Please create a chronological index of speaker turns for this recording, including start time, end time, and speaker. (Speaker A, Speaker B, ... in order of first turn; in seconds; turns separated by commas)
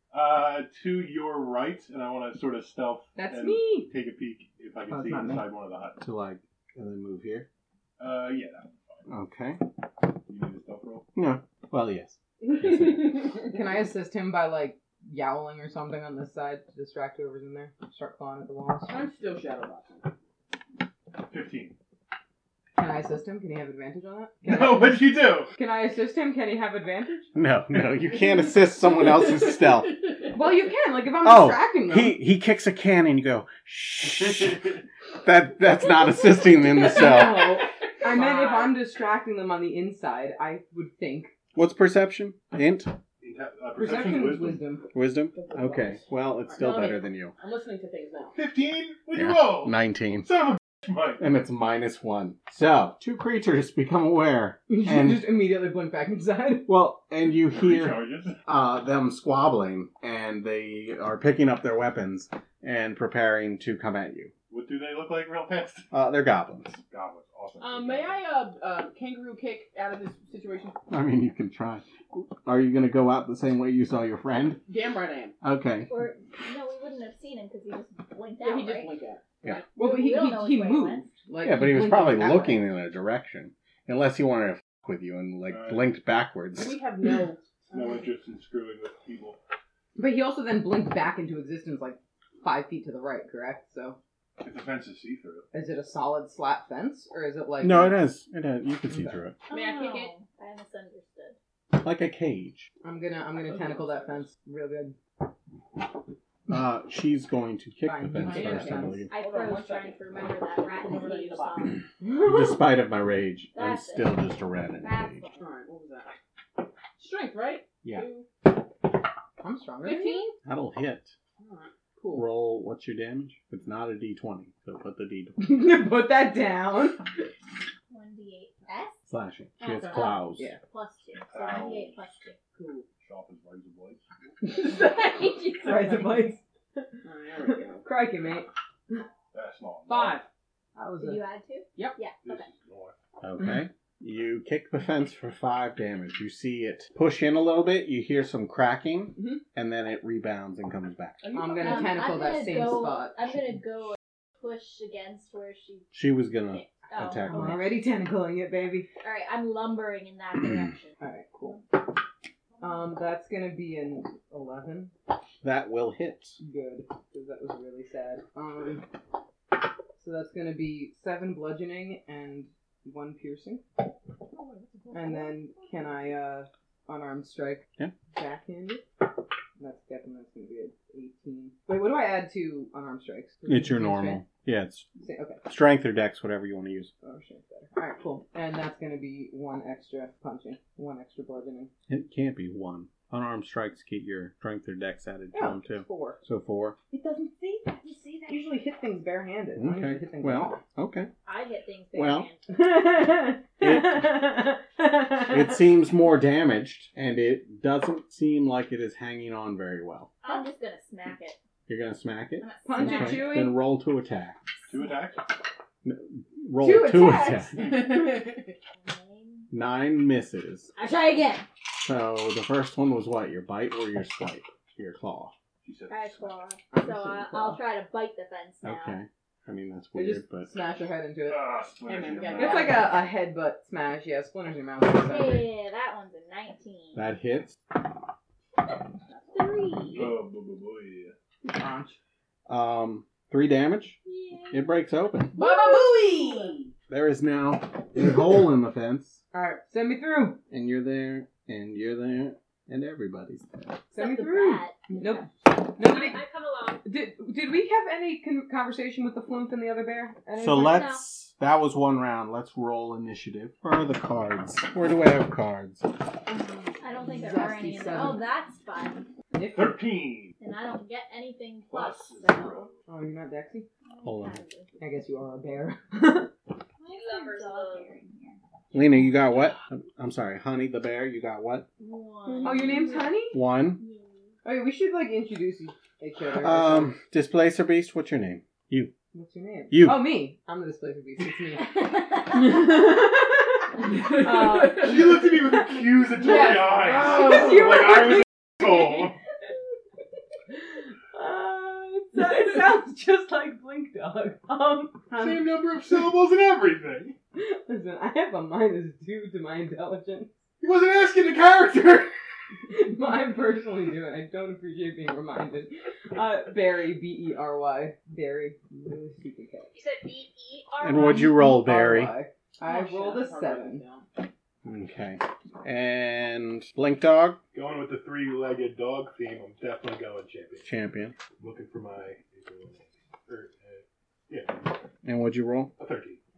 Speaker A: 0.1-6.0, Speaker B: 3.1-3.9, Speaker B: 4.9-5.5, Speaker C: 6.0-7.5, Speaker A: 8.0-9.1, Speaker C: 9.1-9.6, Speaker A: 10.3-11.1, Speaker C: 11.2-13.3, Speaker B: 12.6-19.0, Speaker D: 18.9-20.1, Speaker A: 21.2-21.7, Speaker B: 22.8-27.3, Speaker A: 24.4-25.5, Speaker C: 27.3-30.1, Speaker B: 30.3-32.2, Speaker C: 31.2-37.6, Speaker A: 34.0-34.8, Speaker B: 36.4-41.3, Speaker E: 38.0-38.7, Speaker C: 41.5-43.0, Speaker A: 43.2-44.6, Speaker B: 43.8-44.9, Speaker C: 44.9-47.3, Speaker D: 45.3-48.4, Speaker A: 48.3-51.2, Speaker C: 49.1-50.3, Speaker C: 51.2-55.4, Speaker B: 54.7-56.7, Speaker C: 56.7-64.3, Speaker A: 57.2-58.4, Speaker A: 64.5-65.9, Speaker C: 65.9-66.8, Speaker A: 66.9-68.2, Speaker D: 67.6-70.8, Speaker C: 70.9-74.7, Speaker D: 74.6-75.3, Speaker C: 75.4-75.9, Speaker F: 75.9-78.9, Speaker D: 78.4-79.8, Speaker F: 79.7-81.1, Speaker B: 79.8-82.7, Speaker C: 81.4-86.8, Speaker A: 85.5-85.8, Speaker D: 86.5-88.0, Speaker A: 87.7-89.4, Speaker B: 90.0-94.0, Speaker A: 94.4-95.5, Speaker B: 95.5-98.0, Speaker C: 97.6-99.4, Speaker B: 98.9-99.2, Speaker F: 99.5-101.3, Speaker D: 99.5-100.1, Speaker C: 101.7-102.7, Speaker B: 102.8-105.0, Speaker D: 103.3-104.3, Speaker C: 106.5-109.1, Speaker B: 107.8-109.0, Speaker D: 108.2-111.8, Speaker F: 109.1-111.8, Speaker B: 112.0-112.6, Speaker C: 112.2-115.2, Speaker F: 113.5-115.4, Speaker D: 115.3-116.2, Speaker D: 117.0-118.3, Speaker B: 119.4-120.2, Speaker D: 119.8-120.4, Speaker C: 120.4-121.1, Speaker D: 121.4-121.7, Speaker B: 122.0-122.2, Speaker C: 122.1-125.7, Speaker B: 125.4-127.1, Speaker F: 127.9-128.9, Speaker C: 129.1-130.5, Speaker F: 129.6-132.4, Speaker A: 131.3-132.2, Speaker B: 132.6-132.8, Speaker A: 133.0-134.0, Speaker B: 134.4-136.8, Speaker F: 135.6-136.1, Speaker D: 137.0-137.9, Speaker B: 137.4-139.0, Speaker A: 139.3-140.2, Speaker D: 139.9-140.3, Speaker B: 140.7-141.2, Speaker F: 141.0-142.4, Speaker A: 142.2-142.9, Speaker C: 143.2-151.2, Speaker D: 149.1-149.4, Speaker D: 151.2-152.2, Speaker B: 151.3-153.3, Speaker F: 151.6-155.9, Speaker C: 155.9-157.7, Speaker F: 156.5-157.6, Speaker B: 157.3-158.9, Speaker F: 159.0-160.9, Speaker B: 161.0-161.7, Speaker B: 162.6-164.9, Speaker C: 165.4-166.4, Speaker B: 166.4-168.9, Speaker B: 169.9-173.6, Speaker D: 174.2-175.7, Speaker B: 174.9-178.8, Speaker B: 179.6-184.2, Speaker C: 183.4-184.9, Speaker B: 185.0-185.4, Speaker C: 185.4-186.9, Speaker B: 187.0-191.7, Speaker C: 191.9-196.8, Speaker B: 195.3-196.2, Speaker B: 196.9-200.6, Speaker C: 199.6-201.1, Speaker F: 201.2-202.4, Speaker C: 201.9-202.3, Speaker B: 202.5-205.6, Speaker C: 203.6-204.1, Speaker C: 205.3-210.1, Speaker F: 210.2-211.4, Speaker C: 211.7-214.5, Speaker F: 212.4-213.5, Speaker B: 212.6-213.6, Speaker A: 214.7-215.3, Speaker C: 215.8-217.8, Speaker B: 216.6-217.9, Speaker D: 217.6-218.4, Speaker F: 218.8-219.5, Speaker C: 219.5-220.7, Speaker F: 220.7-221.5, Speaker C: 221.7-225.3, Speaker A: 225.6-226.4, Speaker F: 225.9-228.9, Speaker B: 226.7-227.6, Speaker C: 228.6-230.5, Speaker B: 229.9-231.5, Speaker A: 231.2-232.9, Speaker D: 231.8-233.0, Speaker B: 232.3-235.5, Speaker F: 234.9-237.1, Speaker C: 236.9-237.6, Speaker D: 239.1-239.7, Speaker F: 239.3-240.1, Speaker A: 239.9-241.1, Speaker B: 241.4-242.0, Speaker C: 242.5-245.3, Speaker F: 244.1-244.6, Speaker D: 245.3-246.7, Speaker F: 245.3-246.5, Speaker C: 246.9-249.2, Speaker B: 249.3-250.4, Speaker C: 250.5-253.8, Speaker F: 253.9-255.2, Speaker B: 253.9-256.2, Speaker E: 255.8-256.8, Speaker B: 256.8-260.8, Speaker C: 260.4-265.9, Speaker F: 260.6-261.0, Speaker F: 266.8-269.1, Speaker B: 267.1-268.2, Speaker D: 267.4-268.0, Speaker B: 269.3-269.8, Speaker A: 269.5-270.3, Speaker F: 270.4-272.7, Speaker A: 271.6-272.7, Speaker B: 272.9-273.7, Speaker F: 273.8-274.7, Speaker C: 274.0-274.4, Speaker B: 274.8-276.3, Speaker F: 276.8-278.4, Speaker E: 276.9-277.9, Speaker C: 278.7-281.7, Speaker F: 281.8-284.3, Speaker D: 282.3-282.7, Speaker B: 282.4-283.4, Speaker C: 283.3-283.8, Speaker B: 284.4-286.9, Speaker C: 286.4-288.9, Speaker B: 289.1-295.3, Speaker C: 289.7-290.1, Speaker F: 291.6-292.5, Speaker D: 294.4-294.7, Speaker A: 294.7-299.1, Speaker D: 296.2-297.6, Speaker B: 297.0-298.2, Speaker B: 301.1-305.2, Speaker A: 305.1-307.2, Speaker B: 307.3-310.4, Speaker A: 310.6-312.1, Speaker B: 312.7-319.7, Speaker E: 319.7-321.3, Speaker C: 320.8-322.1, Speaker B: 320.9-323.8, Speaker D: 322.6-324.1, Speaker C: 324.6-327.4, Speaker A: 327.5-330.7, Speaker C: 330.6-331.2, Speaker A: 331.3-334.8, Speaker C: 335.0-335.7, Speaker A: 335.8-336.2